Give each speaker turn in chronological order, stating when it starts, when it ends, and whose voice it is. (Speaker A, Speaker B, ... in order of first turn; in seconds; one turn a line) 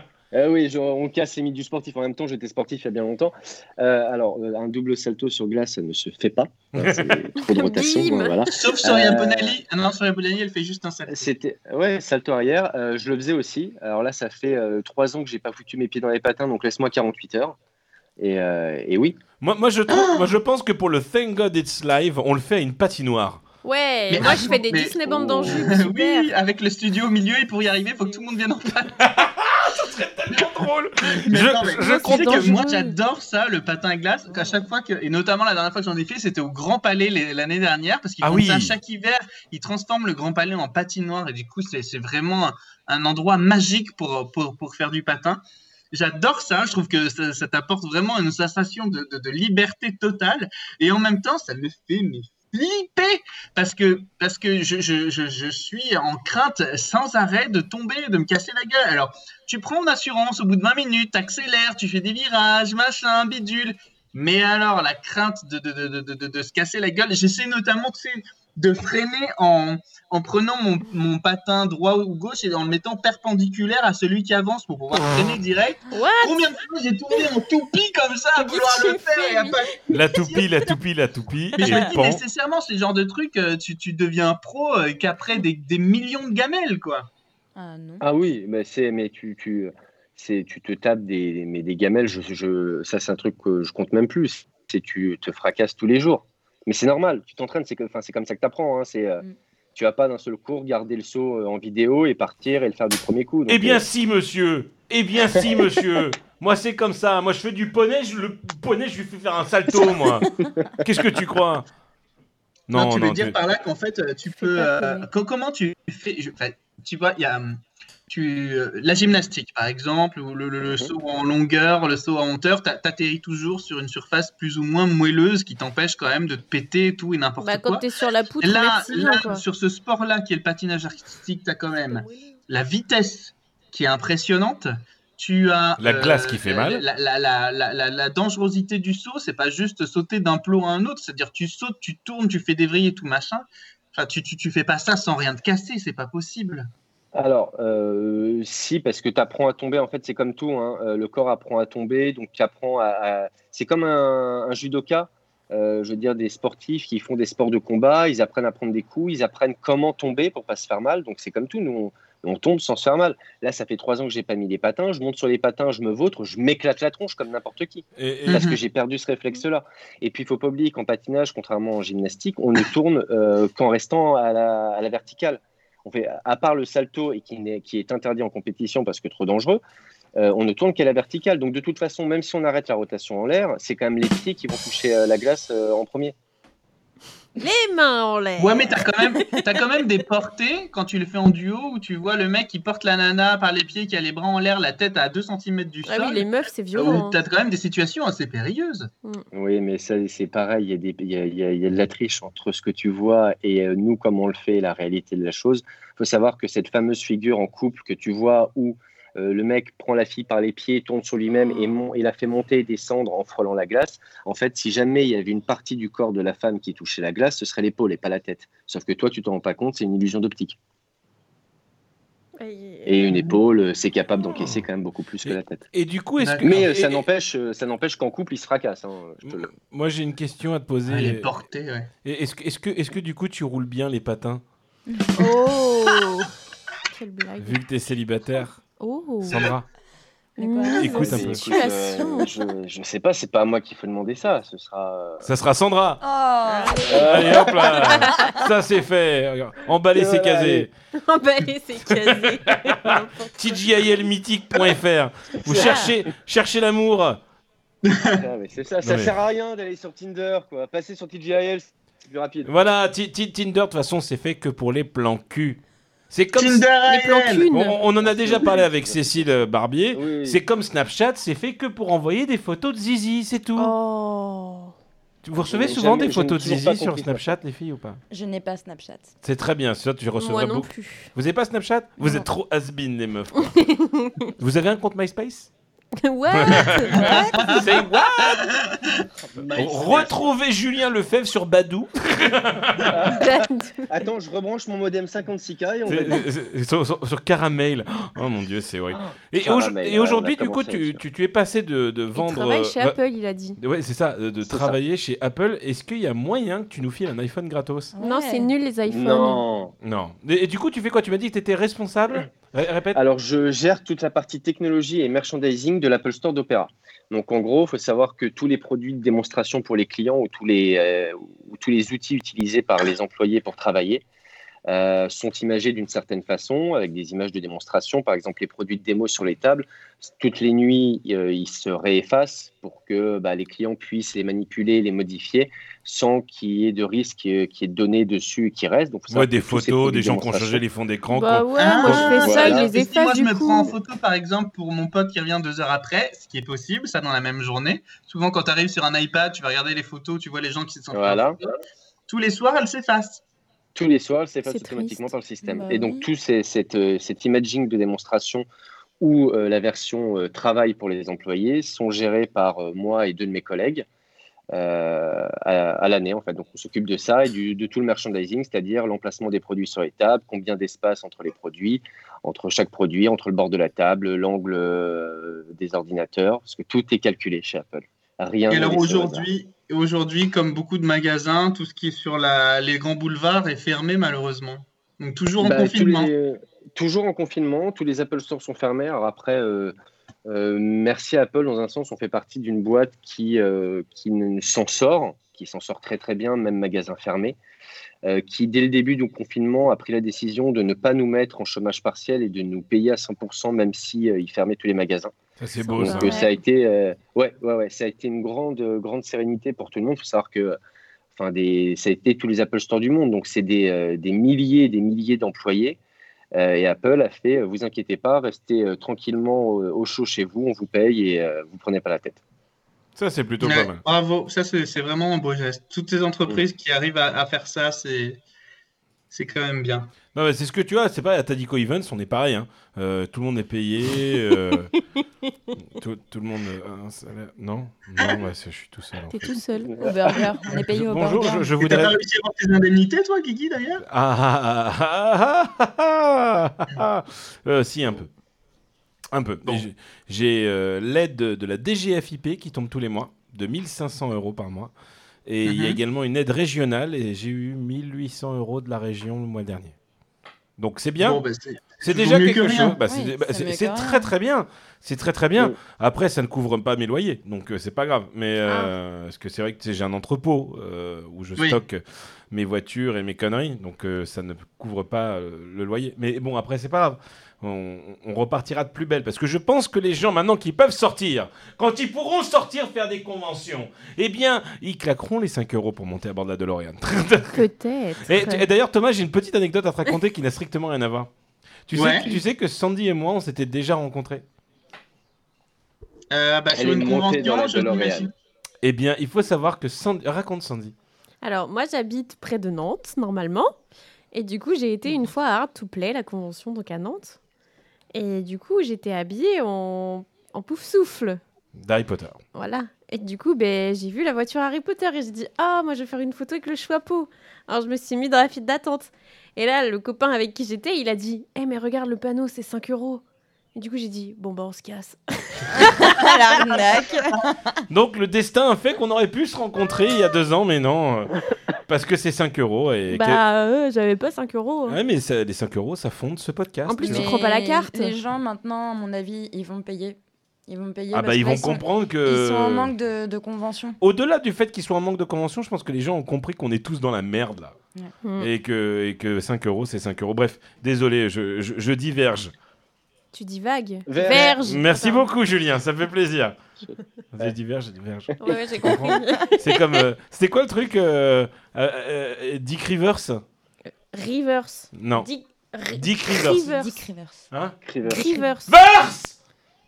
Speaker A: 0.3-9.6
Speaker B: 6.7-7.2
Speaker C: 7.4-8.5
Speaker D: 8.5-11.3
Speaker A: 11.1-17.6
Speaker A: 18.2-19.2
Speaker B: 19.4-23.4
Speaker D: 19.9-20.3
Speaker C: 23.6-26.3
Speaker D: 24.1-29.1
Speaker A: 25.1-25.6
Speaker B: 29.0-32.5
Speaker D: 31.2-80.5
Speaker C: 31.7-33.0
Speaker B: 38.2-38.8
Speaker C: 75.9-76.5
Speaker C: 78.3-79.6
Speaker B: 79.9-82.2
Speaker D: 81.6-87.1
Speaker C: 81.6-81.9
Speaker E: 87.5-88.0
Speaker A: 88.0-99.2
Speaker A: 99.7-103.8
Speaker B: 103.5-111.7
Speaker B: 112.7-113.4
Speaker D: 112.7-127.8
Speaker E: 114.4-115.0
Speaker A: 120.6-120.9
Speaker C: 127.4-129.4
Speaker D: 128.4-146.7
Speaker C: 131.9-132.4
Speaker B: 135.8-136.8
Speaker A: 147.1-179.6
Speaker B: 168.0-168.4
Speaker D: 168.3-168.6
Speaker A: 180.2-186.1
Speaker C: 187.4-189.6
Speaker D: 188.4-198.9
Speaker C: 195.8-197.2
Speaker A: 199.3-220.6
Speaker C: 222.4-223.3
Speaker A: 222.8-225.7
Speaker B: 224.3-224.6
Speaker B: 225.2-226.9
Speaker D: 226.2-226.9
Speaker A: 226.4-229.5
Speaker B: 229.2-231.3
Speaker D: 230.9-231.9
Speaker B: 232.0-234.4
Speaker E: 234.9-235.3
Speaker C: 235.2-236.3
Speaker E: 235.9-236.1
Speaker C: 236.9-237.6
Speaker B: 237.4-238.6
Speaker C: 238.8-239.5
Speaker B: 239.2-239.7
Speaker C: 240.4-242.3
Speaker E: 240.4-241.1
Speaker B: 240.7-241.7
Speaker A: 240.8-245.2
Speaker B: 245.2-246.0
Speaker E: 246.0-248.4
Speaker C: 246.5-248.3
Speaker A: 246.9-247.5
Speaker B: 246.9-250.7
Speaker A: 249.9-250.7
Speaker C: 251.0-253.7
Speaker B: 252.1-257.2
Speaker A: 255.5-255.8
Speaker C: 255.5-255.9
Speaker D: 257.9-258.2
Speaker A: 258.1-262.5
Speaker B: 258.8-259.1
Speaker B: 262.4-266.7
Speaker D: 266.3-267.5
Speaker C: 266.9-267.8
Speaker B: 267.5-273.7
Speaker A: 267.9-270.4
Speaker C: 273.6-274.7
Speaker B: 275.2-278.0
Speaker A: 275.4-277.2
Speaker E: 278.1-279.1
Speaker B: 279.2-283.8
Speaker C: 280.2-281.1
Speaker E: 282.0-282.3
Speaker C: 283.4-284.3
Speaker B: 284.4-285.5
Speaker C: 286.0-287.2
Speaker B: 286.3-288.5
Speaker E: 287.0-287.5
Speaker D: 287.0-290.1
Speaker A: 289.3-290.3
Speaker B: 289.5-293.1
Speaker A: 292.9-293.3
Speaker C: 293.1-293.9
Speaker A: 293.9-296.2
Speaker B: 295.9-303.0
Speaker A: 298.9-301.0
Speaker C: 302.1-303.6
Speaker B: 303.6-307.9
Speaker A: 304.4-304.8
Speaker E: 307.9-308.5
Speaker C: 308.0-309.4
Speaker A: 308.9-309.7
Speaker B: 309.8-313.0
Speaker A: 312.9-324.0
Speaker A: 324.7-340.6
Speaker B: 339.1-342.2
Speaker C: 341.1-343.7
Speaker D: 341.6-351.5
Speaker A: 341.9-342.7
Speaker A: 350.9-351.4
Speaker D: 352.1-353.2
Speaker A: 353.7-358.5
Speaker C: 354.4-355.1
Speaker E: 355.4-356.1
Speaker A: 359.0-363.8
Speaker A: 364.5-379.3
Speaker D: 378.5-386.1
Speaker A: 385.4-389.7
Speaker A: 390.3-397.4
Speaker A: 398.0-405.1
Speaker B: 405.4-406.2
Speaker C: 405.8-406.2
Speaker A: 405.8-410.6
Speaker E: 405.9-406.3
Speaker A: 411.1-415.8
Speaker A: 416.3-422.2
Speaker B: 422.9-423.8
Speaker D: 423.4-428.2
Speaker D: 429.1-429.9
Speaker B: 430.1-434.7
Speaker B: 435.6-439.3
Speaker C: 439.1-439.7
Speaker E: 439.8-441.5
Speaker B: 440.7-441.9
Speaker D: 441.6-443.8
Speaker B: 443.8-448.1
Speaker B: 449.1-454.7
Speaker B: 455.2-459.7
Speaker D: 455.4-455.8
Speaker B: 460.6-461.2
Speaker D: 461.0-462.8
Speaker B: 461.8-487.5
Speaker E: 462.8-464.1
Speaker C: 468.4-468.7
Speaker C: 487.3-488.4
Speaker B: 488.0-491.1
Speaker B: 491.7-494.2
Speaker D: 491.7-492.1
Speaker D: 496.1-498.1
Speaker A: 496.5-498.1
Speaker B: 498.6-500.7
Speaker C: 501.2-503.5
Speaker C: 504.1-507.2
Speaker C: 507.9-511.2
Speaker B: 511.5-512.2
Speaker C: 512.3-523.0
Speaker C: 523.5-526.6
Speaker E: 525.5-527.6
Speaker B: 527.7-531.1
Speaker B: 531.7-533.2
Speaker C: 532.9-534.8
Speaker B: 534.7-537.1
Speaker C: 536.7-538.0
Speaker E: 536.8-543.8
Speaker B: 540.9-542.7
Speaker B: 543.8-547.5
Speaker C: 548.0-548.3
Speaker B: 548.2-552.3
Speaker C: 553.1-555.1
Speaker A: 553.9-554.4
Speaker B: 554.1-556.4
Speaker B: 557.1-563.2
Speaker C: 558.2-559.8
Speaker C: 563.9-566.9
Speaker B: 564.7-565.1
Speaker B: 565.7-566.5
Speaker E: 566.4-567.3
Speaker B: 567.3-567.5
Speaker A: 567.6-568.0
Speaker C: 567.8-568.5
Speaker E: 567.9-568.3
Speaker B: 568.4-569.1